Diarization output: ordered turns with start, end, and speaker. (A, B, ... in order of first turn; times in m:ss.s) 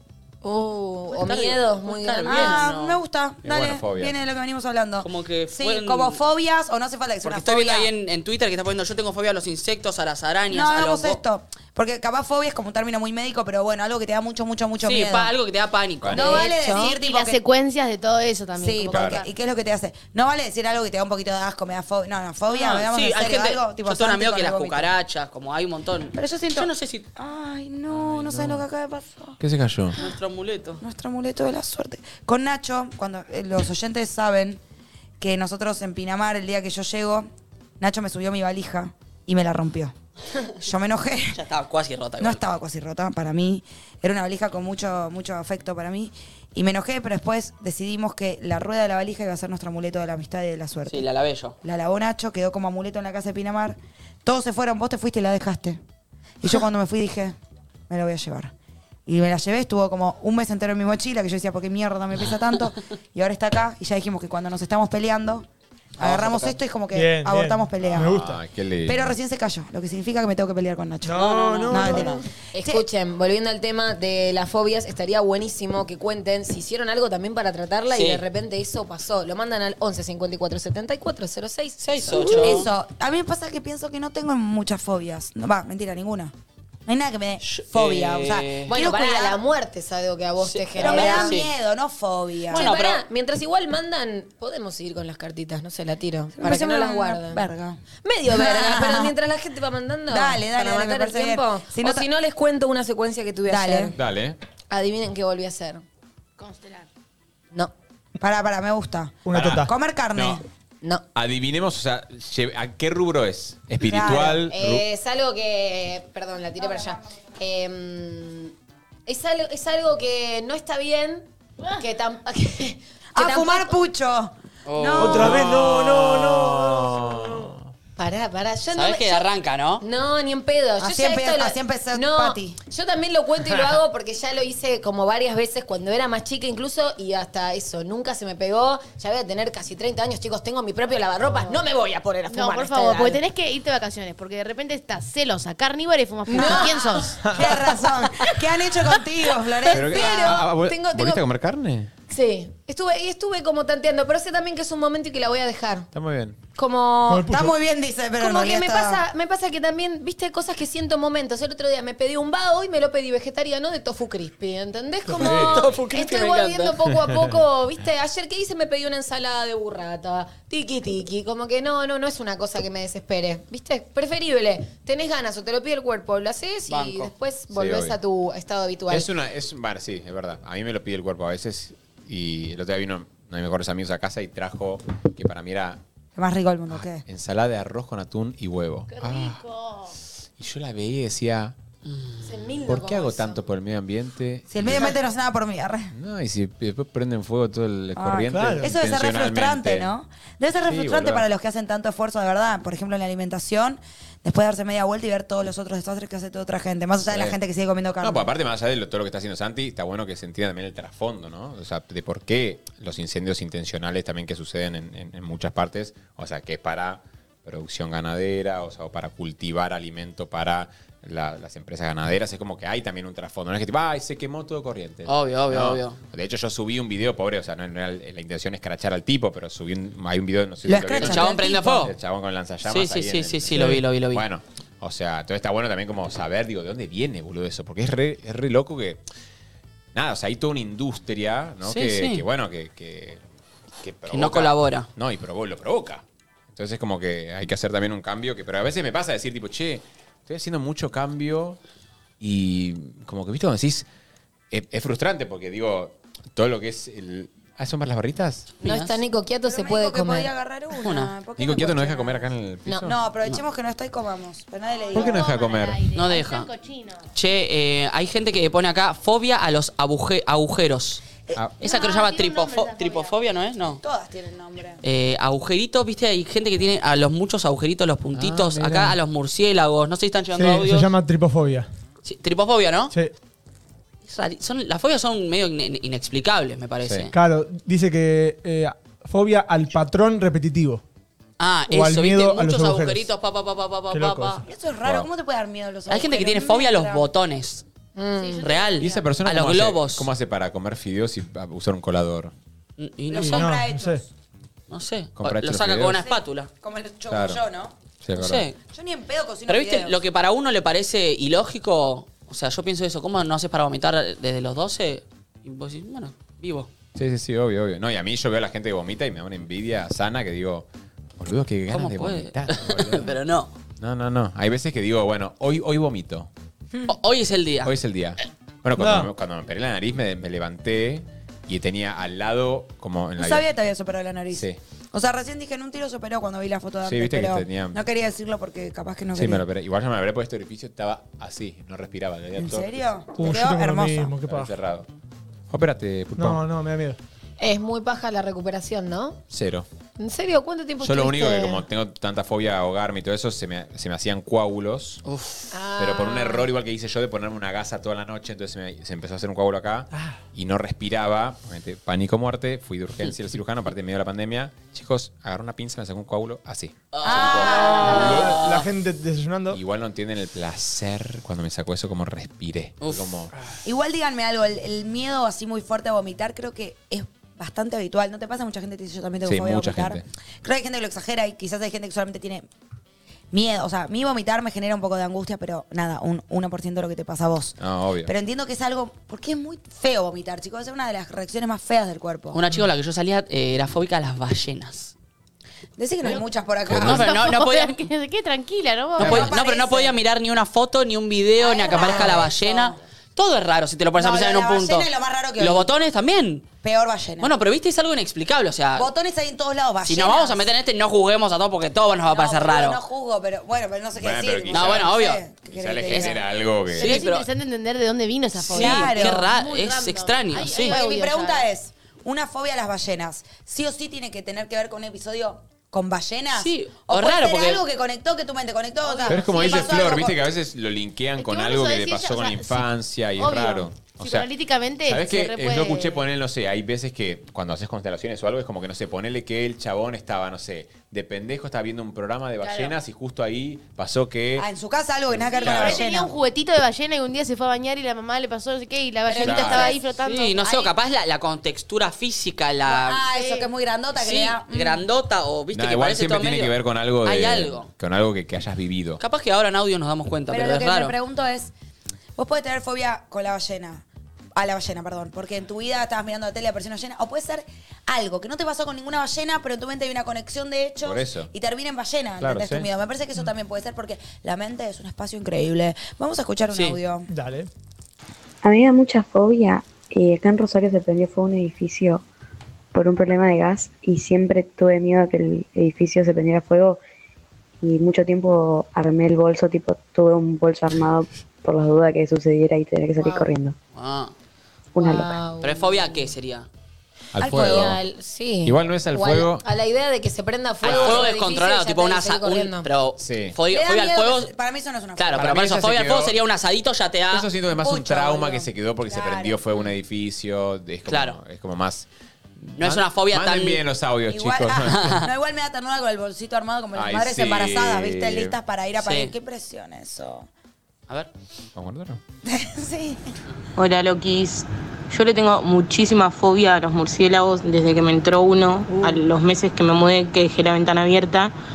0:00.4-0:02.6 A
0:01.1-0:03.0 B
0:02.2-0:07.9 C
0:03.4-0:04.1 D
0:05.0-0:06.2 B
0:07.2-0:11.2 B
0:10.5-0:15.3 C
0:14.8-0:16.4 B
0:16.0-0:16.4 D
0:16.1-0:17.4 C
0:16.2-0:19.3 E
0:16.2-0:16.9 A
0:18.6-0:24.9 C
0:18.9-0:19.2 D
0:22.5-0:27.1 B
0:26.1-0:29.4 C
0:27.9-0:28.6 D
0:29.4-0:30.0 D
0:30.0-0:30.8 B
0:30.8-0:34.6 C
0:35.2-0:37.3 C
0:37.8-0:39.9 C
0:40.6-0:41.4 C
0:41.3-0:42.4 B
0:42.2-0:51.1 C
0:50.9-0:51.6 B
0:51.6-0:55.8 C
0:56.4-0:57.4 C
0:57.9-0:58.5 C
0:59.1-1:05.5 C
1:06.0-1:06.6 B
1:06.0-1:08.2 C
1:06.9-1:08.4 F
1:07.9-1:09.1 D
1:08.8-1:12.8 C
1:11.0-1:12.2 F
1:11.2-1:11.9 B
1:11.9-1:22.6 A
1:17.9-1:18.2 B
1:21.8-1:22.7 B
1:22.3-1:26.3 C
1:26.9-1:29.4 C
1:27.4-1:28.7 B
1:28.7-1:31.4 A
1:30.4-1:31.5 B
1:30.8-1:32.7 C
1:32.5-1:33.0 B
1:32.5-1:37.5 A
1:36.4-1:39.1 C
1:38.0-1:43.9 A
1:40.1-1:42.1 C
1:43.5-1:44.0 C
1:43.9-1:44.4 D
1:44.7-1:45.8 A
1:46.4-1:46.9 E
1:48.2-1:50.4 C
1:49.2-1:49.7 F
1:49.3-1:50.4 D
1:51.1-1:54.8 D
1:53.8-1:54.4 C
1:54.5-1:58.5 A
1:59.1-2:01.3 A
2:01.8-2:03.7 A
2:03.2-2:05.4 C
2:04.7-2:05.4 B
2:05.0-2:07.5 F
2:05.1-2:07.6 D
2:08.0-2:09.2 A
2:08.8-2:09.8 B
2:09.8-2:23.2 A
2:10.8-2:12.6 C
2:22.3-2:27.4 E
2:26.3-2:27.2 A
2:26.3-2:30.5 C
2:29.6-2:31.2 A
2:29.7-2:31.9 D
2:32.1-2:35.9 A
2:35.9-2:36.4 D
2:36.6-2:37.3 A
2:37.1-2:37.5 F
2:37.3-2:39.0 C
2:38.2-2:59.1 A
2:45.1-2:45.7 F
2:45.2-2:46.8 B
2:56.7-2:57.1 B
2:57.5-2:58.0 D
2:58.9-3:05.8 D
3:06.2-3:07.0 C
3:06.7-3:09.4 D
3:08.9-3:09.9 E
3:10.4-3:11.6 D
3:12.2-3:15.0 D
3:12.2-3:13.4 A
3:14.5-3:15.9 C
3:15.9-3:19.9 D
3:18.0-3:28.3 C
3:18.3-3:18.8 F
3:20.6-3:21.3 D
3:27.1-3:27.4 D
3:28.0-3:59.0 D
3:45.1-3:46.0 B
3:50.6-3:51.9 C
3:51.0-3:51.9 B
3:52.6-3:54.2 B
3:53.5-3:53.8 F
4:00.0-4:03.2 D
4:01.6-4:02.2 B
4:03.8-4:11.6 D
4:04.1-4:04.9 B
4:12.2-4:13.9 D
4:14.5-4:18.5 D
4:18.6-4:19.0 B
4:18.6-4:20.3 A
4:19.5-4:22.3 C
4:20.8-4:21.1 B
4:21.4-4:23.0 D
4:22.8-4:25.2 C
4:24.9-4:27.1 E
4:24.9-4:25.9 D
4:25.9-4:26.5 B
4:27.1-4:31.0 B
4:31.4-4:31.6 D
4:31.6-4:33.1 E
4:31.6-4:33.8 B
4:33.8-4:34.8 C
4:34.8-4:40.9 B
4:38.1-4:38.9 D
4:40.3-4:41.7 F
4:42.0-4:42.9 B
4:44.1-4:47.1 B
4:46.8-4:47.1 D
4:47.1-4:50.8 F
4:51.4-4:54.4 B
4:51.7-4:53.1 F
4:53.9-4:54.4 F
4:54.5-4:57.1 C
4:55.9-4:57.6 B
4:58.0-4:58.5 A
4:58.2-4:59.2 E
4:58.4-5:00.1 B
4:58.8-5:02.3 D
5:02.8-5:03.5 B
5:03.1-5:04.0 C
5:03.2-5:04.0 F
5:04.7-5:06.5 B
5:05.2-5:06.1 D
5:06.0-5:07.7 C
5:07.1-5:07.4 D
5:08.0-5:08.4 D
5:08.2-5:08.6 B
5:08.7-5:10.0 C
5:09.5-5:16.7 B
5:17.0-5:20.7 D
5:21.2-5:23.1 D
5:21.7-5:23.5 B
5:23.8-5:26.3 D
5:26.9-5:27.7 B
5:27.6-5:33.5 D
5:28.8-5:29.1 F
5:33.2-5:39.4 C
5:34.3-5:34.6 D
5:36.8-5:37.8 D
5:39.2-5:42.9 D
5:42.4-5:44.2 C
5:43.2-5:44.5 F
5:44.2-5:44.9 D
5:45.5-5:46.4 D
5:46.2-5:47.0 F
5:47.4-5:49.2 A
5:49.3-5:49.7 D
5:50.0-5:51.6 A
5:50.8-5:55.0 D
5:55.0-5:55.5 B
5:55.5-5:56.5 A
5:55.8-6:08.4 D
5:59.9-6:00.2 F
6:06.9-6:08.7 B
6:07.0-6:08.0 C
6:07.8-6:09.6 F
6:09.5-6:13.3 D
6:12.8-6:13.1 B
6:13.6-6:22.5 C
6:19.2-6:20.0 D
6:23.3-6:32.4 C
6:27.6-6:28.1 D
6:32.3-6:34.9 B
6:35.8-6:37.1 C
6:36.7-6:37.0 D
6:36.7-6:37.9 B
6:36.8-6:39.3 E
6:39.0-6:40.0 C
6:39.0-6:46.5 B
6:39.0-6:39.3 D
6:41.4-6:42.8 C
6:44.0-6:45.7 C
6:46.6-6:47.3 C
6:47.2-6:48.9 B
6:48.8-6:50.5 C
6:49.9-6:52.8 B
6:52.1-6:56.2 C
6:54.0-6:54.9 D
6:54.5-6:55.2 B
6:55.5-6:57.0 D
6:55.9-6:56.2 B
6:56.7-6:57.3 B
6:56.7-7:01.5 E
6:58.4-7:00.8 B
6:58.5-6:59.3 C
7:00.5-7:10.2 C
7:06.4-7:07.6 B
7:08.8-7:10.0 E
7:09.1-7:14.3 D
7:11.2-7:16.0 E
7:14.8-7:24.5 D
7:22.4-7:22.8 E
7:24.4-7:26.1 C
7:25.2-7:25.9 D
7:25.4-7:30.6 E
7:29.1-7:29.8 C
7:29.2-7:29.7 D
7:30.0-7:33.1 B
7:30.4-7:30.7 C
7:32.7-7:34.9 C
7:33.1-7:33.5 E
7:34.0-7:37.7 B
7:35.5-7:39.0 D
7:39.0-7:41.0 B
7:40.3-7:41.5 C
7:42.2-7:57.1 C
7:50.8-7:51.3 D
7:52.2-7:52.7 D
7:56.5-7:56.8 B
7:57.1-7:57.5 F
7:58.4-8:02.0 G
8:02.7-8:06.8 G
8:07.6-8:13.6 G
8:13.0-8:13.3 A
8:13.7-8:14.1 B
8:14.8-8:15.2 G
8:14.8-8:16.1 A
8:15.4-8:16.5 B
8:17.2-8:17.8 D
8:17.2-8:17.8 C
8:17.3-8:22.7 A
8:18.4-8:19.4 D
8:20.6-8:21.1 D
8:20.6-8:24.3 B
8:23.0-8:23.4 D
8:23.5-8:25.3 C
8:25.0-8:27.3 B
8:25.2-8:26.1 D
8:27.1-8:31.9 D
8:27.5-8:29.4 C
8:30.9-8:31.2 B
8:32.4-8:35.0 D
8:32.6-8:33.6 B
8:34.1-8:40.3 C
8:34.6-8:35.1 B
8:36.8-8:38.4 D
8:38.8-8:39.1 B
8:41.6-8:42.0 D
8:42.2-8:43.0 C
8:43.6-8:51.3 H